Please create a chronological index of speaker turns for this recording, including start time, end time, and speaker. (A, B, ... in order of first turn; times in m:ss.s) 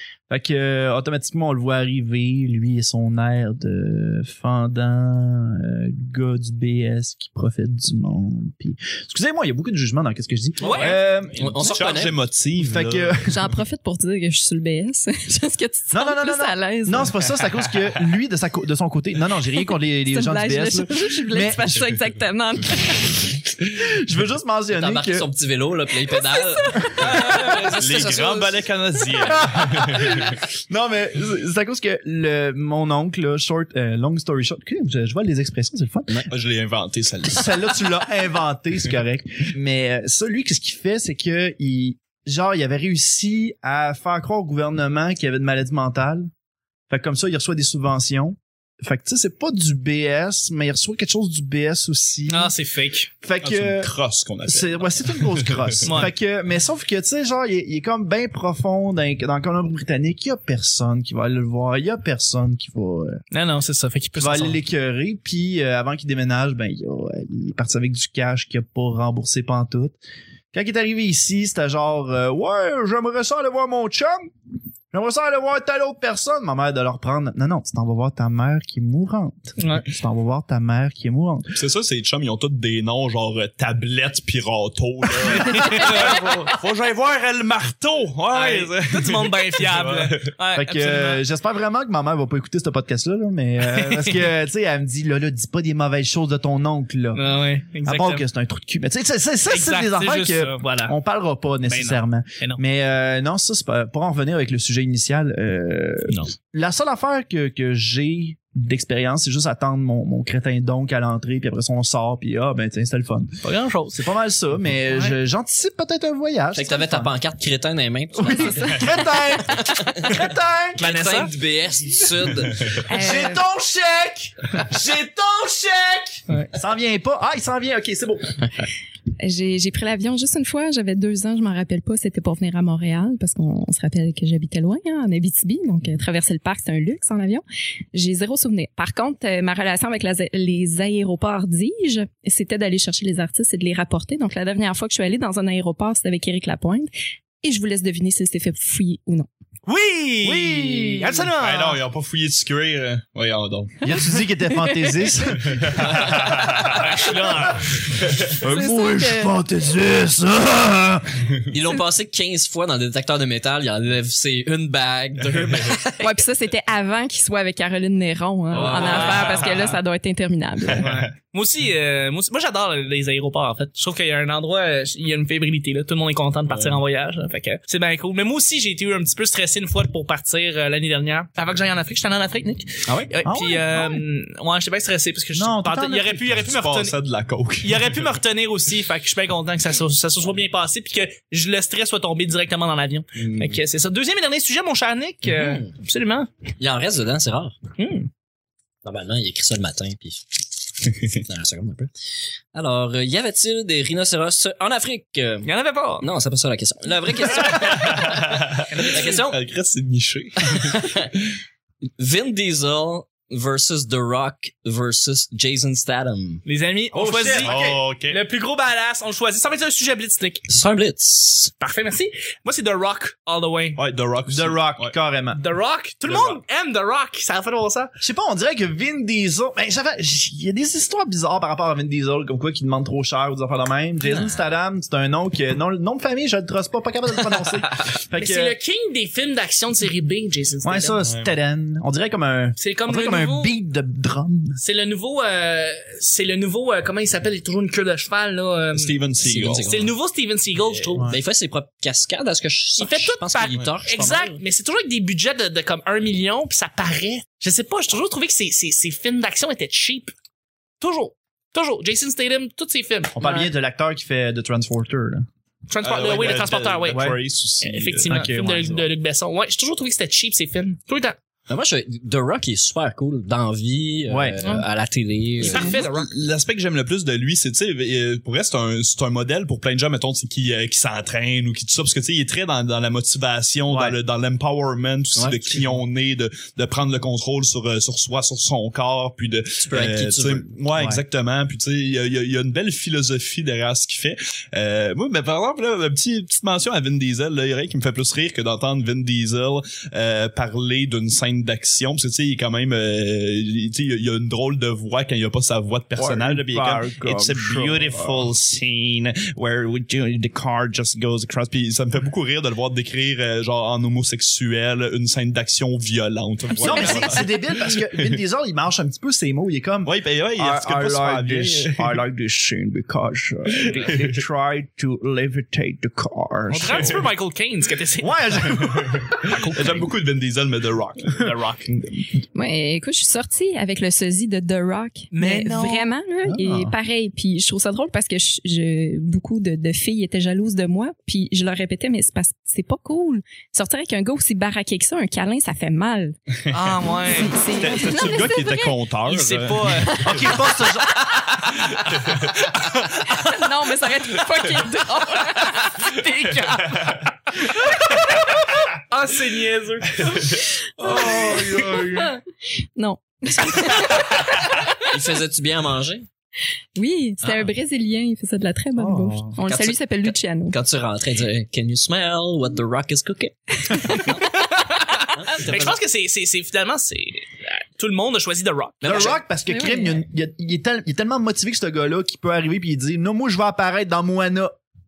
0:00.3-0:11.8 A
0:10.6-0:11.0 B
0:10.6-0:12.2 C
0:11.4-0:13.4 D
0:12.6-0:13.3 A
0:13.2-0:17.2 E
0:15.9-0:21.8 A
0:20.1-0:23.2 E
0:23.7-0:25.3 A
0:24.7-0:28.6 C
0:26.2-0:27.5 E
0:27.8-0:30.4 D
0:29.2-0:36.2 A
0:36.3-0:37.8 D
0:37.3-0:46.3 A
0:46.9-0:52.5 A
0:52.3-0:53.1 B
0:53.2-0:53.9 A
0:53.4-0:55.8 D
0:54.5-1:03.2 A
0:55.8-0:56.1 B
1:03.3-1:04.6 B
1:04.2-1:10.0 A
1:10.5-1:14.3 A
1:14.9-1:21.6 A
1:19.6-1:19.8 B
1:21.5-1:30.3 D
1:25.3-1:25.9 A
1:25.4-1:26.1 B
1:28.3-1:31.2 B
1:30.5-1:37.2 A
1:33.7-1:34.3 B
1:37.1-1:38.2 B
1:37.8-1:53.4 A
1:39.5-1:41.0 B
1:41.6-1:42.6 B
1:53.4-1:54.0 B
1:53.9-1:57.1 A
1:54.9-1:55.2 B
1:56.5-1:58.8 C
1:58.2-2:00.8 A
1:58.3-1:58.9 E
1:59.5-2:00.1 C
2:00.8-2:02.8 C
2:00.8-2:01.3 B
2:02.8-2:03.4 E
2:02.9-2:08.5 A
2:09.2-2:26.9 E
2:27.4-2:29.3 E
2:29.6-2:31.8 B
2:30.2-2:31.3 A
2:31.3-2:33.8 D
2:33.8-2:36.4 A
2:34.5-2:34.9 E
2:35.3-2:38.4 D
2:36.6-2:37.7 B
2:38.4-2:41.3 A
2:38.4-2:39.3 E
2:41.5-2:46.2 C
2:46.0-2:50.9 E
2:48.5-2:49.7 D
2:48.6-2:49.7 B
2:50.7-2:51.1 D
2:50.8-3:07.0 B
2:56.5-2:56.8 D
3:03.2-3:04.0 A
3:05.3-3:06.4 A
3:06.4-3:08.0 D
3:07.6-3:16.3 B
3:15.2-3:15.7 C
3:16.6-3:17.5 C
3:17.8-3:18.1 B
3:18.8-3:20.2 C
3:20.8-3:21.9 C
3:22.5-3:29.4 C
3:25.4-3:26.1 B
3:27.4-3:31.0 D
3:28.7-3:29.2 B
3:30.4-3:31.1 C
3:32.0-3:36.4 C
3:36.4-3:37.5 B
3:36.9-3:37.8 A
3:37.4-3:38.2 D
3:38.1-3:40.5 B
3:40.5-3:41.5 C
3:41.6-3:43.8 B
3:43.8-3:44.9 D
3:44.3-3:45.4 A
3:45.3-3:47.9 B
3:46.1-3:46.3 D
3:48.0-3:58.6 A
3:58.2-4:01.0 B
4:00.6-4:04.6 A
4:01.0-4:01.3 D
4:02.6-4:03.5 B
4:04.6-4:09.0 B
4:08.7-4:09.8 D
4:09.2-4:09.9 C
4:09.6-4:11.1 B
4:11.1-4:14.3 C
4:12.8-4:20.1 B
4:20.8-4:23.5 B
4:23.2-4:25.3 A
4:25.7-4:27.0 B
4:25.8-4:28.3 D
4:26.9-4:27.2 A
4:27.6-4:31.2 B
4:28.1-4:28.9 A
4:31.5-4:35.8 C
4:34.1-4:34.5 A
4:35.4-4:36.1 B
4:35.5-5:18.2 D
4:43.7-4:44.0 A
4:45.2-4:45.7 C
4:49.6-4:50.5 C
4:50.7-4:51.0 A
5:05.9-5:08.3 A
5:16.6-5:27.0 A
5:16.7-5:17.0 E
5:16.8-5:17.1 B
5:19.8-5:21.9 D
5:23.6-5:24.2 D
5:23.7-5:24.0 B
5:26.5-5:28.2 B
5:26.7-5:27.0 D
5:28.0-5:29.8 A
5:28.5-5:31.8 D
5:29.2-5:29.8 B
5:31.2-5:31.6 B
5:32.3-5:46.1 E
5:35.1-5:35.9 B
5:36.2-5:36.7 A
5:46.5-5:46.7 D
5:46.5-5:47.3 B
5:47.0-5:48.7 E
5:47.5-5:50.3 D
5:49.0-5:50.3 B
5:49.8-5:50.2 E
5:50.0-5:51.0 A
5:51.7-5:52.3 D
5:53.1-5:56.5 E
5:55.9-5:57.7 B
5:56.7-5:57.1 D
5:58.9-6:00.2 B
6:00.0-6:02.0 D
6:00.8-6:02.2 E
6:00.8-6:02.0 A
6:02.8-6:04.9 E
6:04.8-6:06.1 C
6:06.8-6:10.6 E
6:07.2-6:07.5 C
6:08.8-6:09.3 A
6:09.4-6:14.2 C
6:13.7-6:14.2 E
6:14.2-6:19.1 B
6:15.1-6:15.8 C
6:18.8-6:19.2 C
6:18.8-6:24.5 A
6:19.5-6:20.0 E